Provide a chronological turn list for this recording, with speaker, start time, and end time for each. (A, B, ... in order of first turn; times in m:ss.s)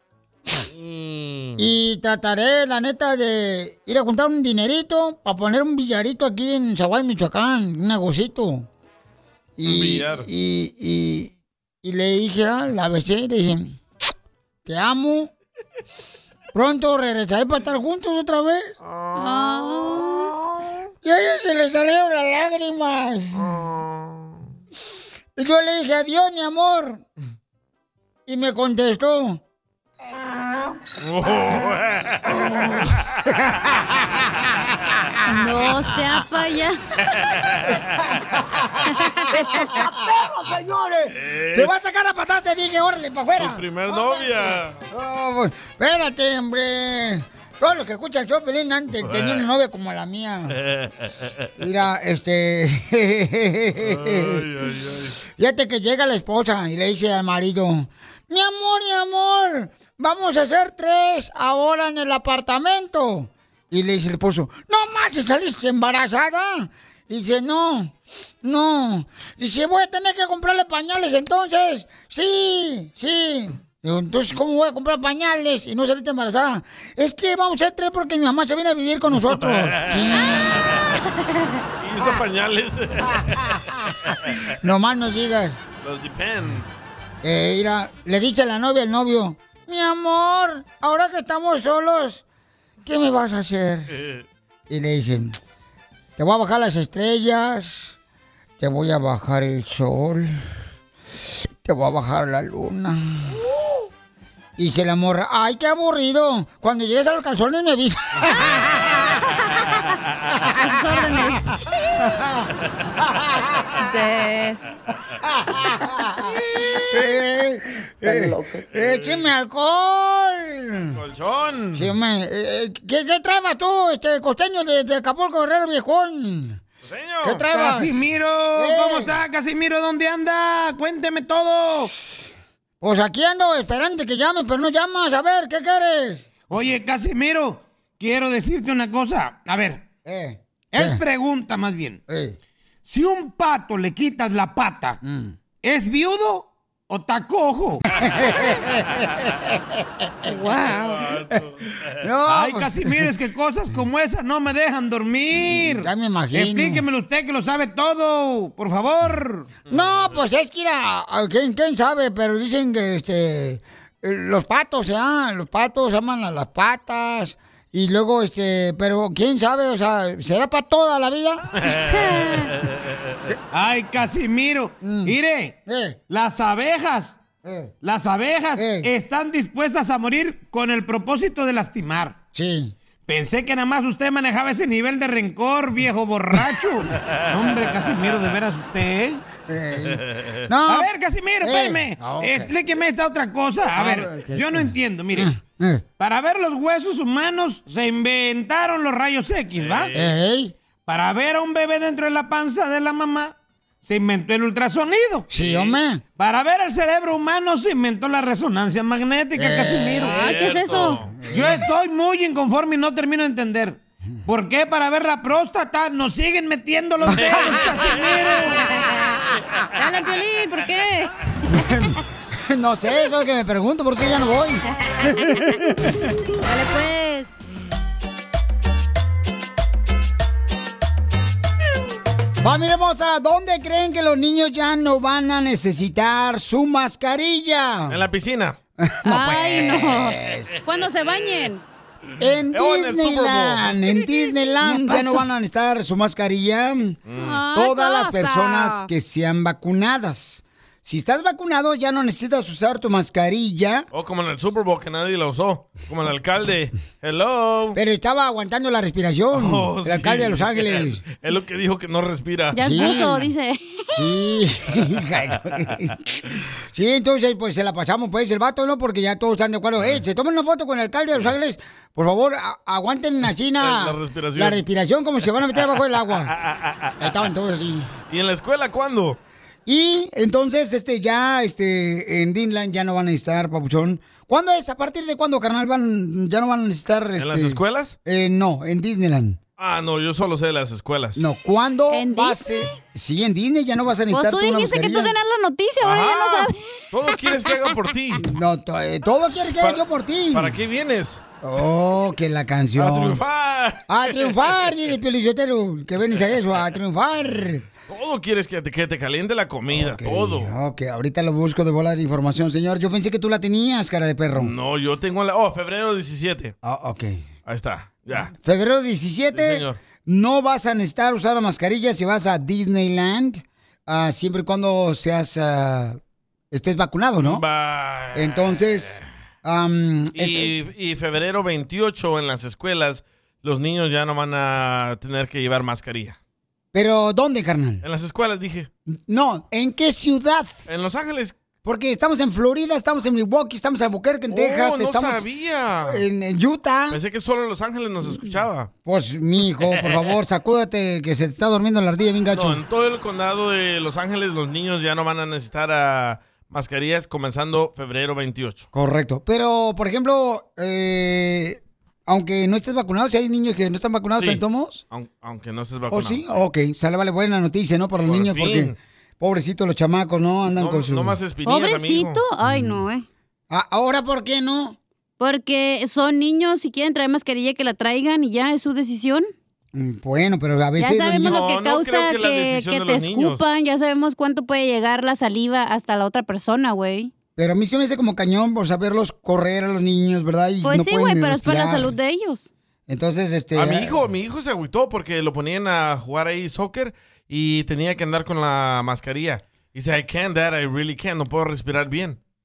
0:00.7-0:01.7 A
0:01.6-0:08.7 B
0:09.6-0:11.3 B
0:09.6-0:10.3 A
0:11.8-0:13.8 B
0:14.7-0:15.3 B
0:16.5-0:18.7 B
0:18.8-0:20.7 A
0:19.2-0:20.3 C
0:21.0-0:23.4 B
0:23.3-0:24.5 A
0:25.4-0:27.0 B
0:28.3-0:29.4 B
0:31.0-0:33.2 A
0:35.3-0:36.8 C
0:37.1-0:38.2 A
0:38.9-0:39.9 C
0:39.8-0:40.0 B
0:41.1-0:41.8 A
0:41.5-0:50.6 B
0:43.4-0:44.8 A
0:49.0-0:49.5 A
0:50.6-0:51.3 A
0:51.6-0:54.5 B
0:53.8-0:55.2 A
0:55.4-1:20.6 B
1:19.1-1:20.7 A
1:21.8-1:23.6 A
1:23.1-1:23.4 B
1:24.1-1:24.4 A
1:24.6-1:25.6 B
1:25.8-1:26.8 A
1:27.2-1:32.2 B
1:32.8-1:33.9 B
1:33.9-1:34.2 A
1:34.7-1:35.4 B
1:36.2-1:38.0 B
1:38.6-1:40.3 B
1:41.6-1:43.4 B
1:44.6-1:49.1 B
1:50.5-1:51.5 C
1:52.1-1:52.3 B
1:53.8-1:54.6 C
1:55.2-2:01.0 B
1:58.7-1:59.3 A
2:00.9-2:01.9 A
2:01.7-2:06.6 B
2:06.8-2:07.5 A
2:07.2-2:07.9 B
2:07.5-2:11.9 D
2:08.6-2:09.1 B
2:12.8-2:16.3 B
2:16.5-2:19.9 D
2:20.0-2:21.0 B
2:20.7-2:22.0 D
2:22.1-2:22.4 B
2:22.8-2:25.0 D
2:25.0-2:25.4 B
2:25.6-2:27.8 D
2:28.0-2:30.4 B
2:30.3-2:31.0 C
2:30.6-2:31.6 A
2:32.0-2:33.0 B
2:32.3-2:39.6 D
2:35.5-2:36.8 B
2:39.7-2:40.2 A
2:39.7-2:51.4 B
2:51.6-2:52.8 A
2:51.9-2:52.5 C
2:53.5-2:55.6 D
2:54.8-2:55.1 B
2:55.7-2:56.0 B
2:56.1-2:57.2 D
2:57.4-2:57.7 B
2:57.8-3:02.2 D
2:58.6-2:58.9 B
3:02.3-3:02.7 B
3:03.1-3:09.2 D
3:09.5-3:10.9 B
3:09.9-3:10.2 A
3:10.6-3:15.3 D
3:11.4-3:12.5 B
3:13.8-3:15.8 B
3:16.0-3:19.9 D
3:19.6-3:20.1 A
3:19.9-3:20.6 B
3:20.9-3:25.3 D
3:25.3-3:26.0 B
3:25.3-3:25.8 A
3:26.2-3:30.1 D
3:29.4-3:30.4 B
3:30.0-3:31.0 C
3:30.1-3:31.2 A
3:31.2-3:31.6 B
3:31.3-3:38.6 D
3:37.1-3:37.7 B
3:37.4-3:38.1 A
3:38.5-3:39.2 C
3:39.8-3:41.1 C
3:41.5-3:44.6 B
3:45.1-3:45.5 C
3:45.3-3:46.0 B
3:46.4-3:47.3 C
3:52.4-3:58.0 B
3:57.9-3:58.6 A
3:58.8-4:00.6 B
3:59.1-4:01.6 C
4:00.9-4:01.5 A
4:02.2-4:07.0 B
4:02.5-4:04.0 A
4:04.6-4:05.2 C
4:07.1-4:07.4 A
4:07.1-4:08.9 C
4:07.5-4:13.9 B
4:13.9-4:17.8 A
4:17.8-4:21.0 B
4:19.3-4:23.1 A
4:22.5-4:24.0 C
4:22.6-4:23.3 B
4:23.9-4:26.0 B
4:26.7-4:36.3 B
4:33.6-4:34.6 A
4:36.2-4:37.2 A
4:37.0-4:37.9 B
4:38.1-4:39.2 A
4:39.7-4:49.4 B
4:47.2-4:48.0 A
4:49.6-4:51.2 A
4:51.2-4:55.1 B
4:51.9-4:52.4 C
4:54.1-4:56.6 C
4:55.8-4:58.3 A
4:58.2-5:00.6 B
4:59.3-5:01.2 A
5:01.4-5:03.2 B
5:02.8-5:04.7 A
5:03.9-5:07.7 B
5:07.9-5:10.5 A
5:09.7-5:14.5 B
5:14.4-5:16.5 A
5:16.6-5:17.2 B
5:17.5-5:18.3 A
5:18.3-5:26.0 B
5:19.3-5:19.8 A
5:26.5-5:27.4 B
5:27.2-5:29.0 A
5:28.1-5:30.5 B
5:30.2-5:36.2 A
5:36.7-5:37.8 B
5:37.8-5:38.7 A
5:39.0-5:40.6 B
5:40.7-5:41.4 A
5:41.6-5:45.3 B
5:44.3-5:46.0 A
5:45.9-5:47.0 B
5:46.9-5:48.7 A
5:48.8-5:52.6 B
5:49.6-5:50.1 A
5:52.3-5:58.7 A
5:58.7-6:04.8 B
6:04.2-6:06.4 A
6:05.9-6:11.2 B
6:08.0-6:08.8 A
6:10.5-6:12.2 A
6:11.5-6:13.1 C
6:12.4-6:12.8 B
6:13.5-6:14.8 B
6:15.2-6:19.3 C
6:19.7-6:21.4 B
6:20.8-6:27.1 C
6:21.2-6:23.4 A
6:27.4-6:31.9 B
6:30.6-6:32.5 C
6:32.9-6:34.0 B
6:33.6-6:42.2 A